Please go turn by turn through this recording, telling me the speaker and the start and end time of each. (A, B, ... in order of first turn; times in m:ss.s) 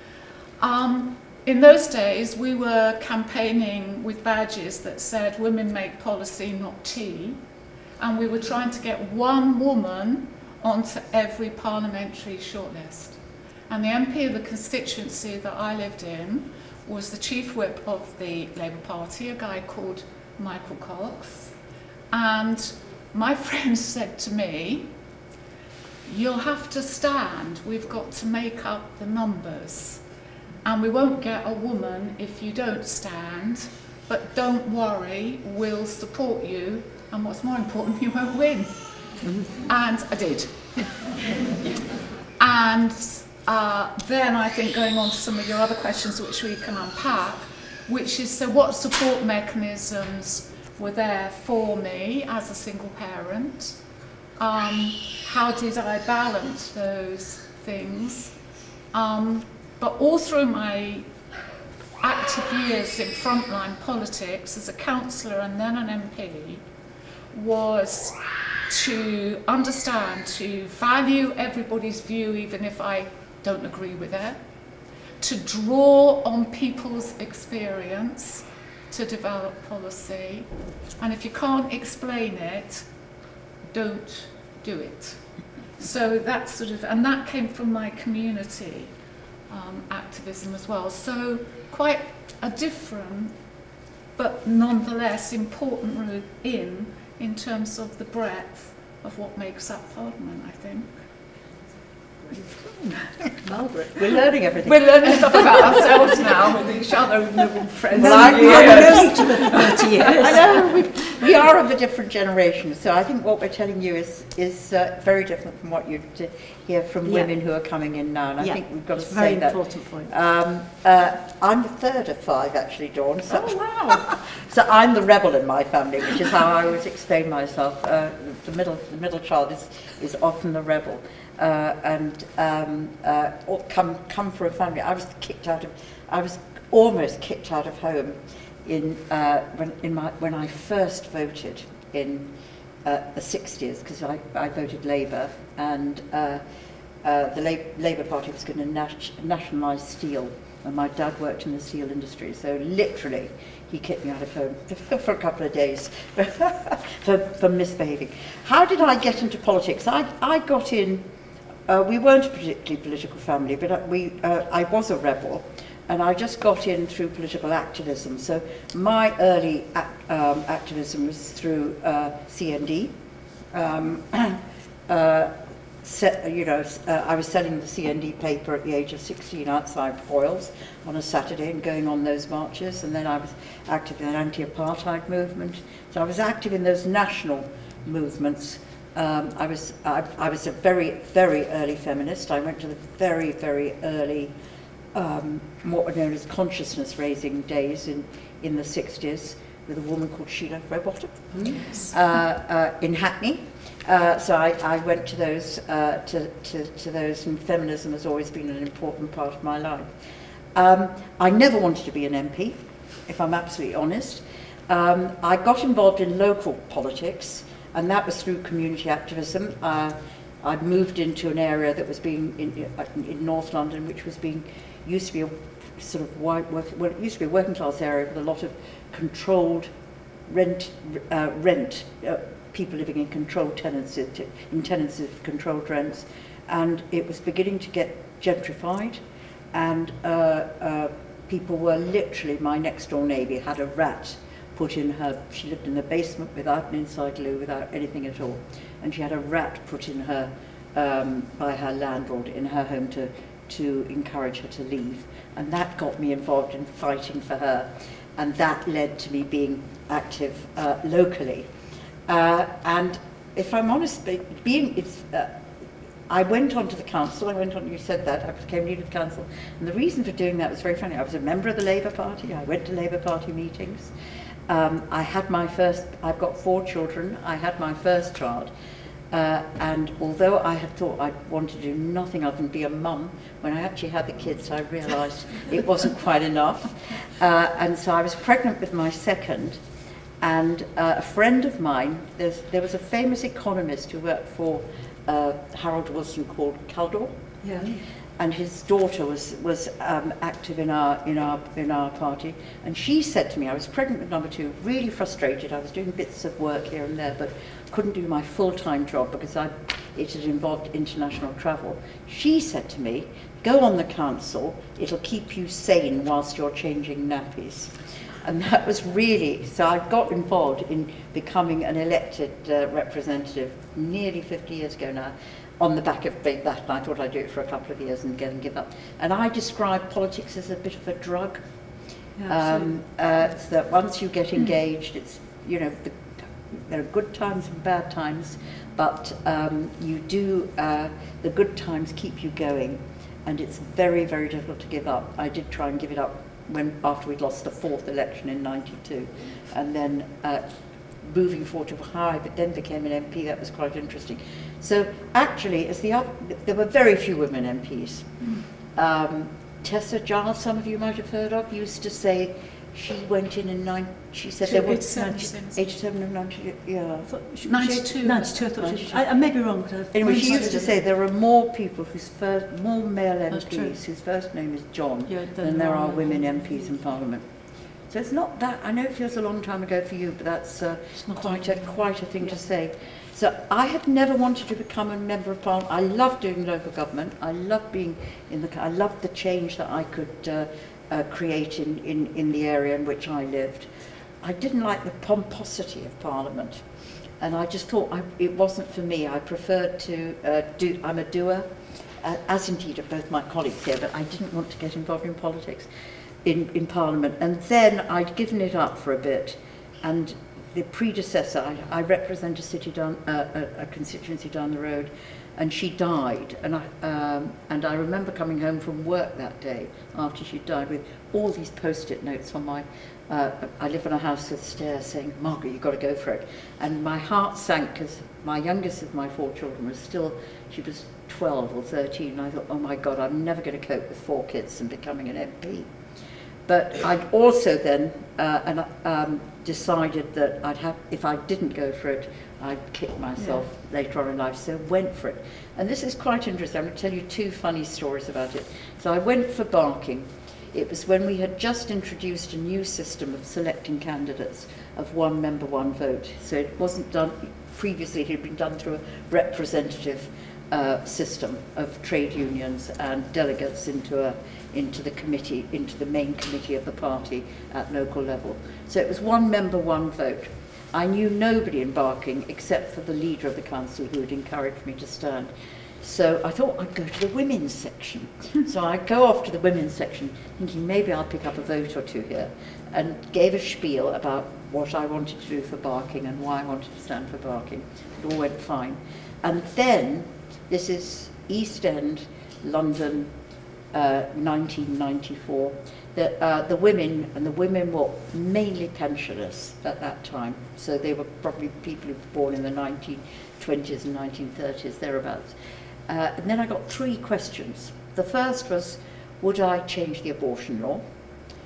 0:00.6-0:07.4 A
0:08.0-0:13.2 A
0:13.7-0:21.5 A
0:22.1-0:24.9 A
0:26.0-0:30.0 A
0:30.6-0:38.7 A
0:39.6-0:41.1 A
0:42.4-0:53.8 A
0:54.4-0:58.3 A
0:58.9-1:01.0 A
1:02.0-1:06.6 A
1:07.3-1:08.2 A
1:08.7-1:14.4 A
1:15.2-1:20.5 A
1:21.0-1:22.8 A
1:23.7-1:25.2 A
1:25.8-1:28.9 A
1:29.5-1:33.3 A
1:34.2-1:40.9 A
1:42.7-1:43.0 B
1:43.5-1:45.9 B
1:44.6-1:50.7 A
1:47.9-1:49.3 B
1:48.0-1:50.5 C
1:50.0-2:22.3 B
1:57.0-1:57.3 C
1:58.4-2:00.1 C
2:03.3-2:04.0 C
2:22.8-2:26.4 B
2:27.0-2:41.0 B
2:41.7-2:52.9 B
2:53.5-3:14.3 B
3:14.9-3:29.9 B
3:21.4-3:21.7 C
3:30.5-3:49.7 B
3:50.3-3:59.0 B
3:59.5-4:21.5 B
4:22.1-4:25.3 B
4:26.1-4:33.9 B
4:34.5-4:38.5 B
4:39.1-4:49.6 B
4:50.2-4:57.1 B
4:57.4-4:57.8 C
4:58.2-5:31.4 B
5:32.2-5:32.7 C
5:32.2-5:50.4 B
5:51.0-5:58.1 B
5:58.8-6:07.1 B
6:04.4-6:05.6 A
6:04.5-6:05.3 C
6:07.1-6:10.8 C
6:07.4-6:08.3 A
6:08.6-6:09.0 B
6:09.9-6:17.2 B
6:13.3-6:13.8 C
6:15.1-6:16.7 C
6:17.9-6:33.7 B
6:21.0-6:21.6 C
6:34.2-6:36.6 B
6:37.2-6:41.5 B
6:42.0-6:45.7 B
6:46.2-7:15.7 B
7:16.4-7:55.3 B
7:55.8-8:13.1 B
8:13.7-8:25.3 B
8:25.9-8:30.8 B